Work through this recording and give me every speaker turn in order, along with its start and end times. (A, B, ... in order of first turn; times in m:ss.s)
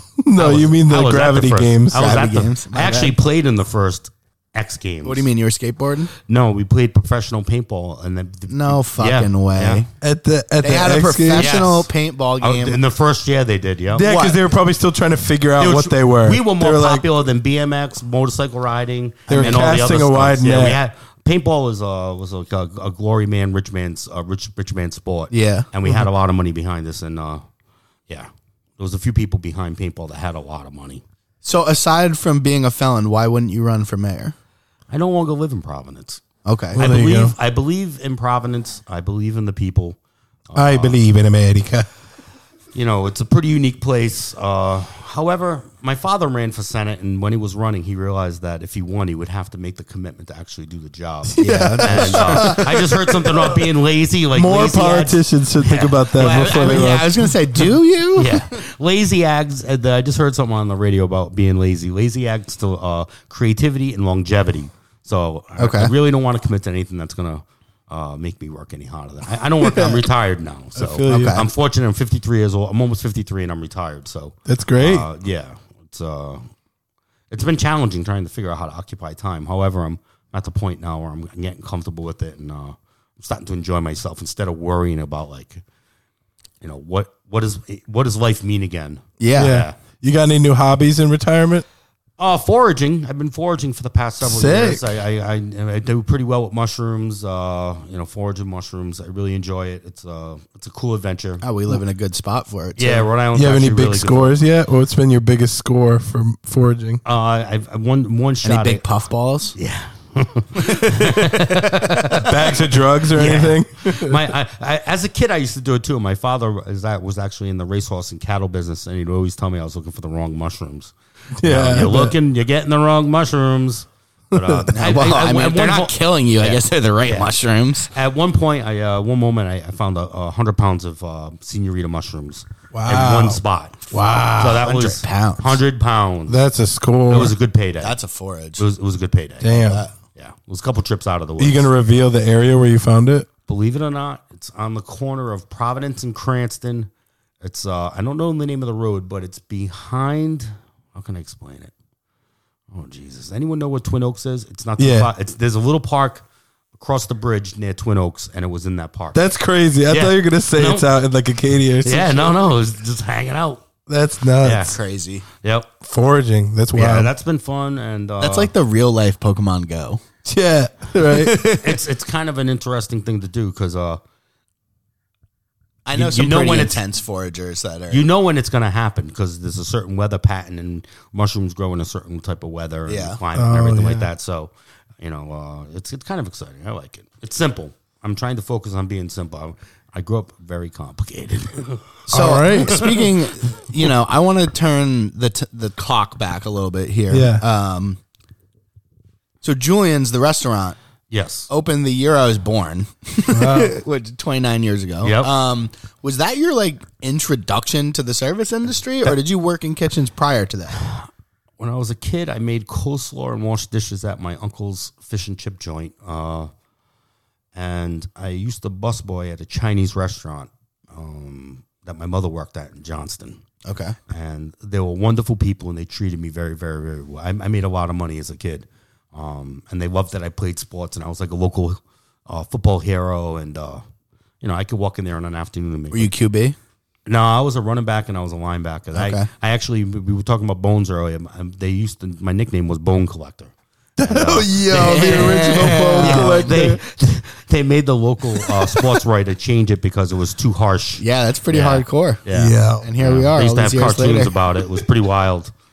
0:00.2-0:02.1 A
0:00.4-0:05.3 B
0:02.0-0:03.2 C
0:05.0-0:06.1 C
0:06.3-0:09.8 B
0:08.5-0:09.9 C
0:10.0-0:11.6 A
0:10.6-0:12.8 C
0:11.3-0:11.9 B
0:12.4-0:14.1 B
0:13.9-0:17.1 A
0:14.1-0:14.4 C
0:15.6-0:27.4 B
0:19.3-0:19.7 C
0:19.3-0:20.8 A
0:25.3-0:25.7 C
0:28.1-0:31.0 B
0:31.4-0:34.4 C
0:34.9-0:36.2 B
0:36.4-0:36.8 C
0:36.8-0:37.3 A
0:36.8-0:40.0 B
0:40.5-0:41.0 B
0:40.6-0:41.9 A
0:42.7-0:56.9 B
0:51.3-0:52.8 A
0:51.4-0:52.8 C
0:54.3-0:57.2 A
0:56.2-0:58.6 C
0:58.2-1:16.5 B
1:05.6-1:05.9 C
1:09.6-1:10.0 A
1:10.8-1:11.4 A
1:11.1-1:11.5 C
1:14.5-1:15.1 A
1:17.3-1:25.6 B
1:26.6-1:29.7 B
1:29.2-1:29.6 C
1:29.4-1:31.6 A
1:32.2-1:41.4 B
1:34.2-1:34.8 A
1:41.4-1:43.1 C
1:42.8-1:44.4 B
1:43.3-1:47.0 A
1:47.0-1:48.8 B
1:48.4-1:49.6 C
1:49.6-2:07.4 B
1:50.6-1:52.3 C
1:52.2-1:54.2 A
2:01.4-2:02.1 A
2:04.3-2:04.7 A
2:04.7-2:07.9 C
2:07.9-2:16.4 B
2:12.7-2:14.6 A
2:14.6-2:15.6 C
2:16.3-2:17.3 A
2:17.1-2:18.0 B
2:17.8-2:18.6 C
2:18.6-2:19.6 B
2:19.4-2:19.8 A
2:19.5-2:19.9 C
2:20.2-2:21.7 B
2:21.4-2:23.3 A
2:23.5-2:26.9 B
2:27.4-2:31.7 B
2:32.7-2:39.2 B
2:34.8-2:35.1 A
2:39.1-2:42.3 A
2:39.9-2:40.9 B
2:41.8-2:43.7 B
2:43.9-2:44.7 A
2:44.4-2:44.8 B
2:44.6-2:45.2 C
2:45.4-2:45.7 B
2:45.8-2:47.1 A
2:46.7-2:48.5 B
2:48.2-2:50.0 C
2:50.2-2:51.4 A
2:51.0-2:51.8 C
2:51.5-2:54.0 B
2:55.8-2:58.0 C
2:55.9-2:56.8 B
2:57.9-3:12.0 B
3:02.9-3:03.2 C
3:03.4-3:04.1 A
3:12.1-3:18.0 C
3:12.1-3:12.9 A
3:12.7-3:13.1 B
3:17.1-3:17.4 A
3:19.4-3:20.8 C
3:21.1-3:21.5 B
3:21.5-3:30.9 C
3:23.3-3:23.8 A
3:25.0-3:25.3 B
3:31.6-3:36.5 B
3:37.6-3:43.4 B
3:43.6-3:44.0 C
3:44.1-3:53.8 B
3:54.4-3:56.1 B
3:55.9-3:56.6 C
3:57.1-4:15.5 B
3:58.9-3:59.3 C
4:04.0-4:06.8 A
4:04.7-4:06.6 C
4:11.0-4:12.2 C
4:12.3-4:12.9 A
4:12.8-4:14.4 C